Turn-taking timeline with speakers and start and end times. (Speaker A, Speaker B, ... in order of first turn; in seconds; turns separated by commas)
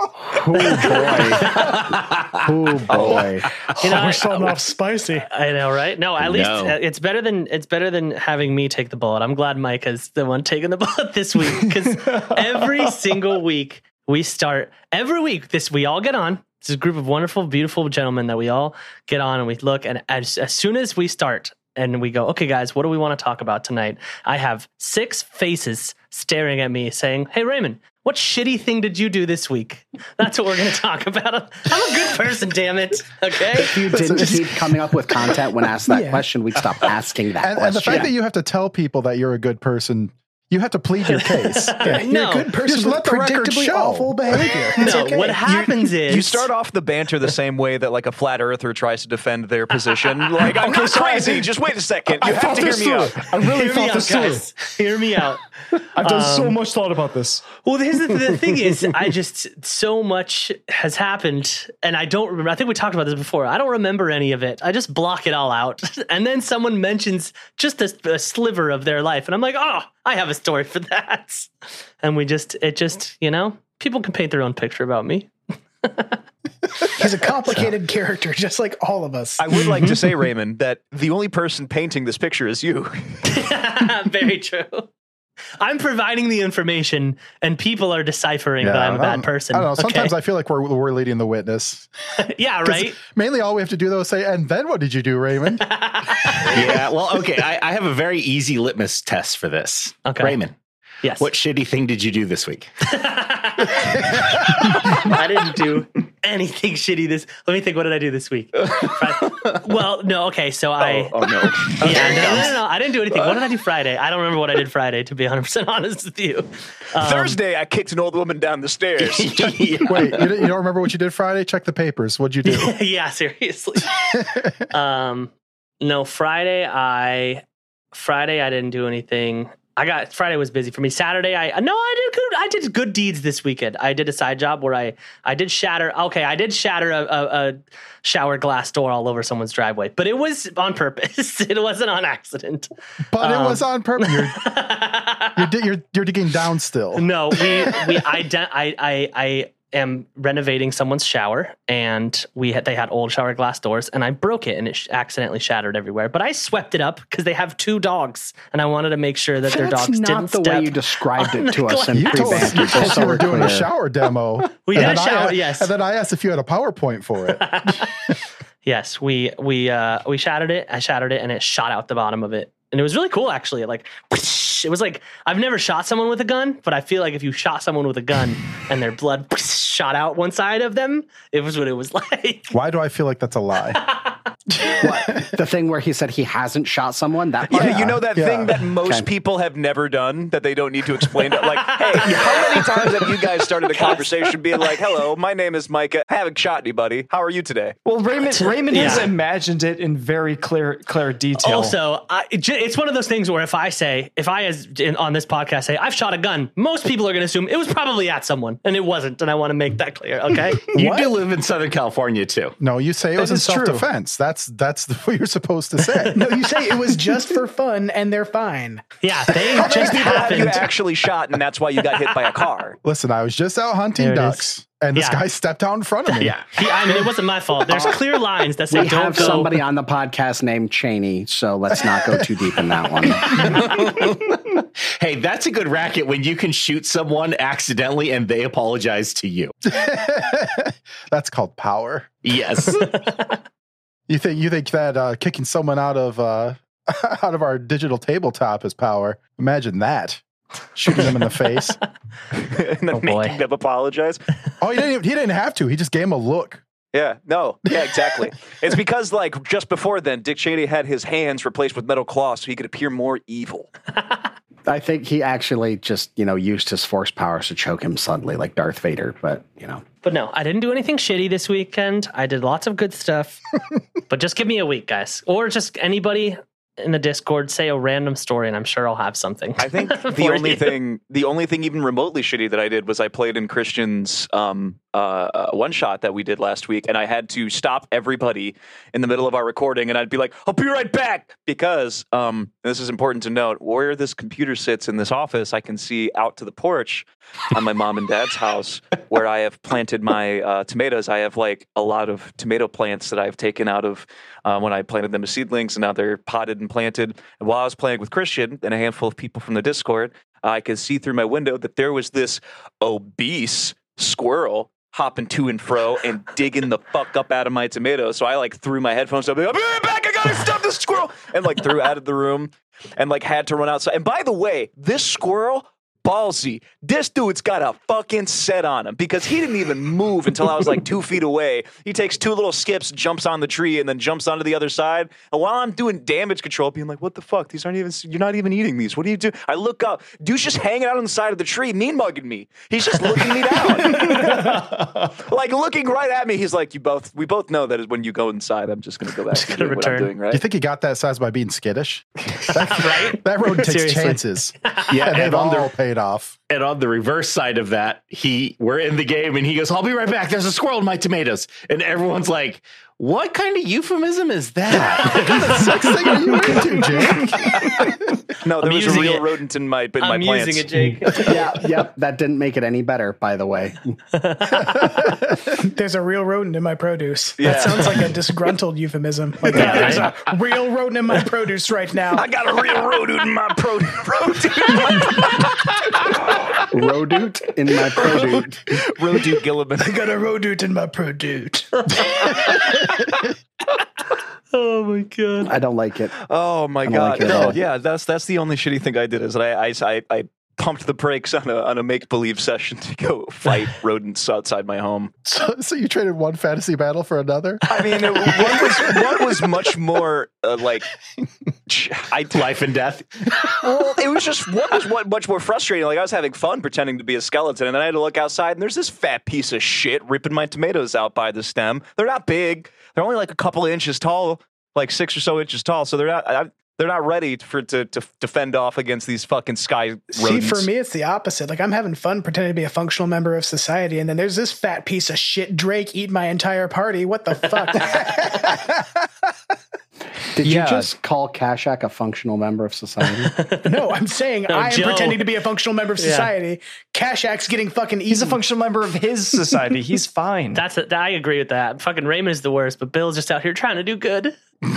Speaker A: 0.2-1.8, Speaker B: 1.4-1.8, Speaker C: 1.8-2.2, Speaker A: 2.4-3.5, Speaker D: 2.9-3.2, Speaker E: 3.8-5.3, Speaker B: 3.8-4.6, Speaker B: 5.2-34.4, Speaker C: 6.2-6.8, Speaker F: 12.1-12.8, Speaker A: 33.6-38.1, Speaker E: 35.9-36.2, Speaker G: 37.4-42.0, Speaker B: 41.1-42.5, Speaker E: 41.8-45.9, Speaker G: 42.6-44.2, Speaker B: 44.8-46.5, Speaker D: 46.1-53.3, Speaker F: 50.4-51.5, Speaker F: 52.1-54.5, Speaker B: 53.3-55.4, Speaker F: 56.0-57.5, Speaker B: 56.0-56.6, Speaker B: 57.6-76.2, Speaker E: 77.0-79.9, Speaker D: 79.4-83.2, Speaker B: 83.2-84.9, Speaker B: 85.6-90.1, Speaker G: 88.6-91.9, Speaker B: 92.2-93.0, Speaker G: 92.7-95.6, Speaker B: 95.6-96.7, Speaker C: 96.5-100.5, Speaker B: 100.0-100.4, Speaker B: 101.0-101.3, Speaker C: 101.2-102.7, Speaker B: 102.8-117.4, Speaker D: 110.8-112.6, Speaker D: 117.0-119.6, Speaker C: 119.0-120.2, Speaker G: 119.8-122.8, Speaker B: 122.5-124.2, Speaker G: 124.2-124.5, Speaker B: 124.7-145.5, Speaker G: 143.1-144.5, Speaker G: 145.4-147.8, Speaker B: 146.9-163.2, Speaker A: 159.4-163.7, Speaker G: 161.9-167.6, Speaker B: 164.6-165.7, Speaker B: 167.3-167.9, Speaker B: 168.6-182.6, Speaker G: 182.5-183.8, Speaker G: 184.5-185.3, Speaker A: 184.8-189.1, Speaker D: 187.5-197.8, Speaker G: 188.2-188.5, Speaker B: 191.3-192.9, Speaker B: 193.7-194.1, Speaker F: 197.8-201.8, Speaker B: 198.3-199.1, Speaker B: 201.4-210.6, Speaker C: 210.7-212.6, Speaker E: 210.8-211.1, Speaker G: 212.6-216.2, Speaker F: 213.2-213.9, Speaker E: 216.1-218.8, Speaker B: 219.0-220.7, Speaker G: 219.5-220.2, Speaker D: 219.6-222.8, Speaker G: 222.8-226.4, Speaker B: 224.0-225.2, Speaker B: 226.4-229.5, Speaker A: 228.7-233.5, Speaker C: 233.4-239.5, Speaker G: 239.7-242.2, Speaker C: 242.2-243.0, Speaker G: 244.1-250.2, Speaker G: 250.8-251.8, Speaker D: 252.4-254.2, Speaker B: 252.9-253.4, Speaker G: 254.6-256.6, Speaker D: 256.9-263.7, Speaker A: 264.7-269.8, Speaker B: 270.0-273.4, Speaker B: 274.1-280.8, Speaker D: 279.6-350.4, Speaker F: 343.8-345.1, Speaker B: 349.3-350.1, Speaker G: 350.3-356.4, Speaker B: 352.4-354.9, Speaker C: 354.9-355.7, Speaker C: 356.5-366.3, Speaker G: 364.7-367.4, Speaker B: 365.2-365.5, Speaker D: 368.4-371.4, Speaker B: 368.6-369.3, Speaker B: 370.0-371.5, Speaker A: 371.2-374.0, Speaker B: 374.1-375.0, Speaker G: 374.6-375.6, Speaker E: 375.6-382.2, Speaker D: 377.4-378.1, Speaker B: 377.4-378.0, Speaker D: 379.5-380.2, Speaker B: 379.5-380.1, Speaker D: 382.1-386.6, Speaker A: 386.6-388.6, Speaker D: 387.9-390.1, Speaker E: 389.8-392.0, Speaker B: 391.9-392.6, Speaker B: 394.5-395.5, Speaker A: 395.4-396.2, Speaker D: 396.2-405.1, Speaker A: 396.8-397.6, Speaker G: 405.2-409.0, Speaker D: 407.7-410.9, Speaker D: 411.7-412.5, Speaker C: 412.3-413.1, Speaker D: 413.4-430.7, Speaker E: 430.1-438.2, Speaker A: 440.4-443.3, Speaker D: 440.4-440.9, Speaker B: 443.1-443.8, Speaker E: 443.6-448.4, Speaker B: 444.5-445.2, Speaker B: 446.0-446.3, Speaker F: 448.1-450.6, Speaker B: 450.5-454.4